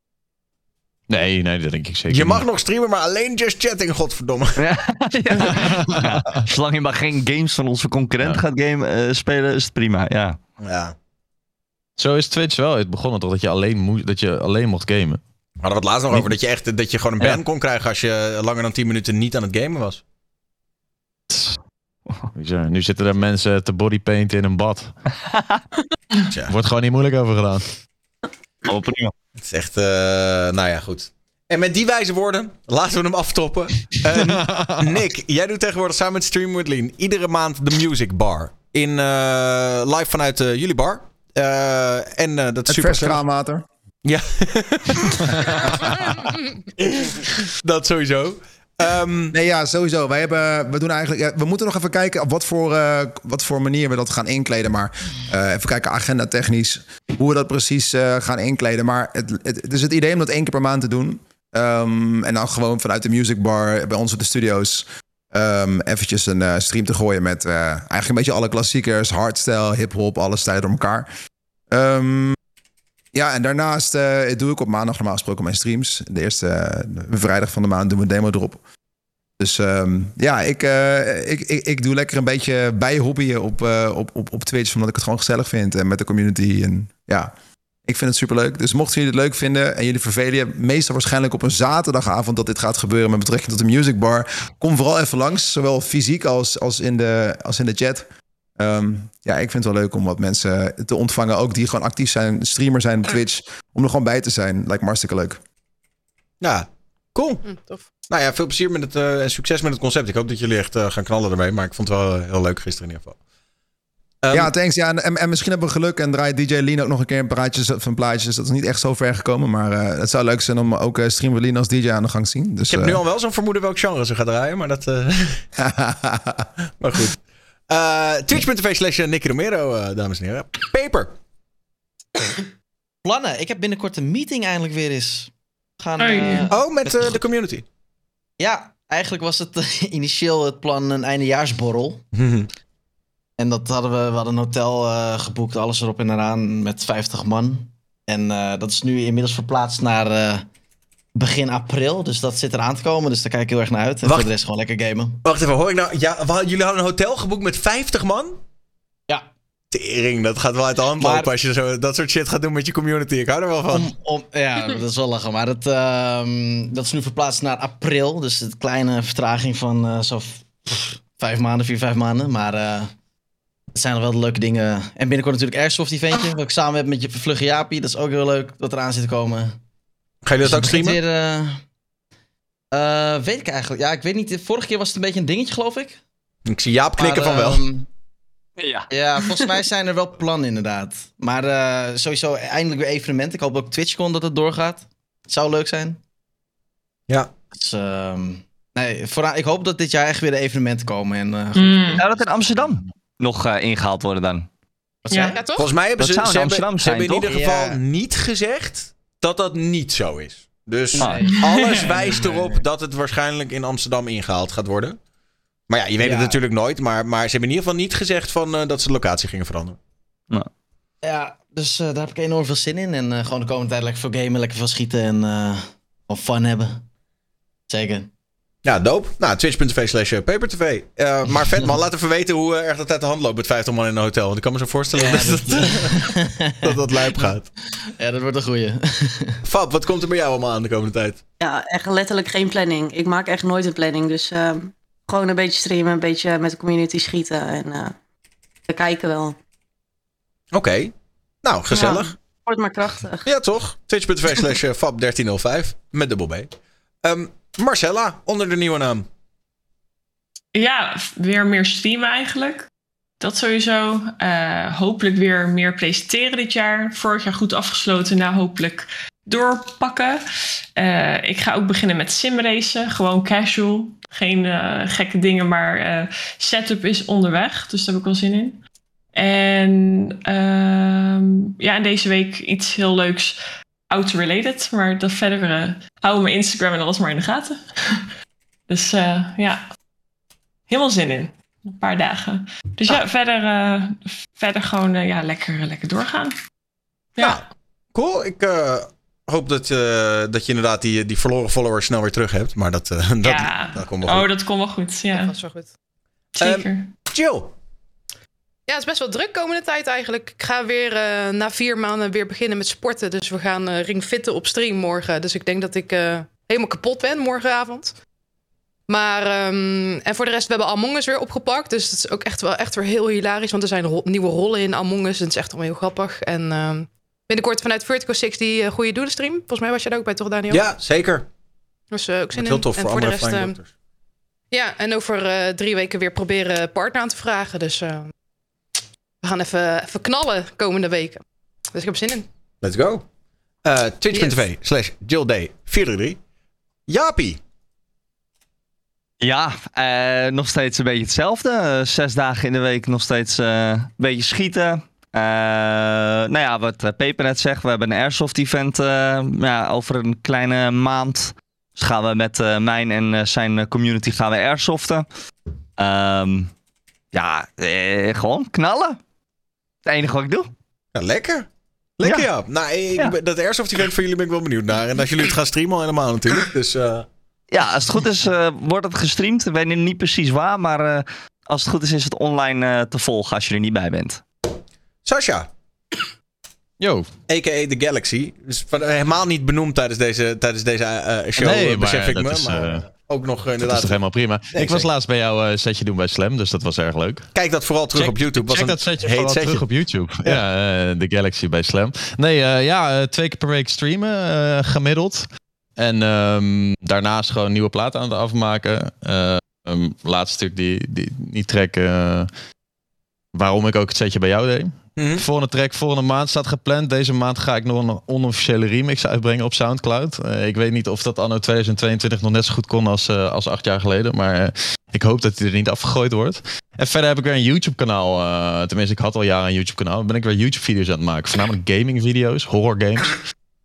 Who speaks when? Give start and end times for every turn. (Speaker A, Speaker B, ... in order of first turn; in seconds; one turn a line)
Speaker A: 1.1-2.4
Speaker B: 2.1-4.6
Speaker C: 4.6-10.4
Speaker A: 5.4-6.2
Speaker B: 10.6-10.9
Speaker A: 12.0-15.2
Speaker B: 15.6-20.0
Speaker A: 21.3-21.6
Speaker A: 22.3-24.9
Speaker C: 25.3-25.6
Speaker A: 26.5-27.7
Speaker C: 28.6-29.1
Speaker B: 29.4-43.2
Speaker A: 34.1-35.0
Speaker D: 42.7-43.7
Speaker B: 44.0-46.2
Speaker B: 46.8-49.3
Speaker D: 49.3-71.1
Speaker D: 71.7-72.4
Speaker D: 73.1-78.6
Speaker D: 79.4-87.3
Speaker D: 87.8-98.0
Speaker D: 98.6-105.4
Speaker B: 106.4-107.4
Speaker E: 107.4-107.9
Speaker B: 108.1-113.2
Speaker B: 114.2-114.5
Speaker D: 114.3-123.0
Speaker B: 122.7-125.4
Speaker D: 125.6-126.5
Speaker B: 126.8-131.1
Speaker F: 133.0-136.6
Speaker G: 136.0-136.4
Speaker B: 136.5-137.6
Speaker F: 138.4-142.0
Speaker B: 142.1-142.5
Speaker F: 143.4-150.5
Speaker F: 151.2-155.2
Speaker B: 154.0-154.3
Speaker B: 155.2-158.4
Speaker B: 159.7-163.9
Speaker F: 161.0-161.3
Speaker F: 163.7-172.9
Speaker F: 173.7-179.6
Speaker B: 180.2-181.0
Speaker F: 180.4-181.6
Speaker F: 182.7-186.0
Speaker B: 186.4-187.6
Speaker F: 187.0-187.8
Speaker C: 188.6-188.9
Speaker F: 188.9-196.0
Speaker B: 197.1-197.3
Speaker F: 197.5-202.0
Speaker G: 201.5-202.0
Speaker C: 202.0-204.5
Speaker F: 205.0-205.4
Speaker G: 205.1-205.4
Speaker E: 205.3-205.7
Speaker B: 205.6-215.0
Speaker C: 206.0-207.3
Speaker F: 207.3-207.8
Speaker F: 210.9-212.6
Speaker G: 211.2-211.9
Speaker B: 215.7-219.8
Speaker F: 216.0-216.4
Speaker F: 221.0-226.8
Speaker F: 227.7-228.1
Speaker B: 228.6-235.9
Speaker F: 234.9-237.3
Speaker B: 236.6-237.5
Speaker F: 237.9-239.4
Speaker B: 239.4-241.2
Speaker H: 241.4-247.9
Speaker H: 248.7-249.3
Speaker B: 250.5-252.1
Speaker H: 251.7-253.3
Speaker B: 253.2-256.5
Speaker B: 257.0-259.1
Speaker G: 260.5-262.7
Speaker G: 263.2-270.2
Speaker G: 270.8-278.6
Speaker G: 279.1-283.4
Speaker G: 283.9-288.0
Speaker G: 288.7-289.6
Speaker G: 290.7-296.3
Speaker B: 297.2-304.3
Speaker G: 303.2-305.3
Speaker E: 305.1-305.7
Speaker G: 306.4-306.9
Speaker B: 306.4-307.5
Speaker E: 308.7-317.9
Speaker E: 318.9-330.7
Speaker B: 330.5-331.2
Speaker E: 331.9-333.5
Speaker B: 332.3-333.7
Speaker E: 334.5-338.1
Speaker E: 339.2-342.2
Speaker B: 342.6-343.0
Speaker B: 343.6-346.2
Speaker E: 344.1-344.4
Speaker B: 346.9-347.4
Speaker C: 349.2-365.1
Speaker C: 365.8-366.5
Speaker C: 367.1-369.0
Speaker C: 369.9-370.5
Speaker B: 370.9-377.1
Speaker C: 377.5-384.2
Speaker B: 385.0-385.5
Speaker A: 386.8-387.1
Speaker B: 387.3-394.9
Speaker A: 391.4-392.9
Speaker A: 393.6-397.3
Speaker B: 397.3-399.6
Speaker A: 397.9-405.3
Speaker A: 405.8-412.3
Speaker A: 413.3-433.2
Speaker B: 414.9-415.2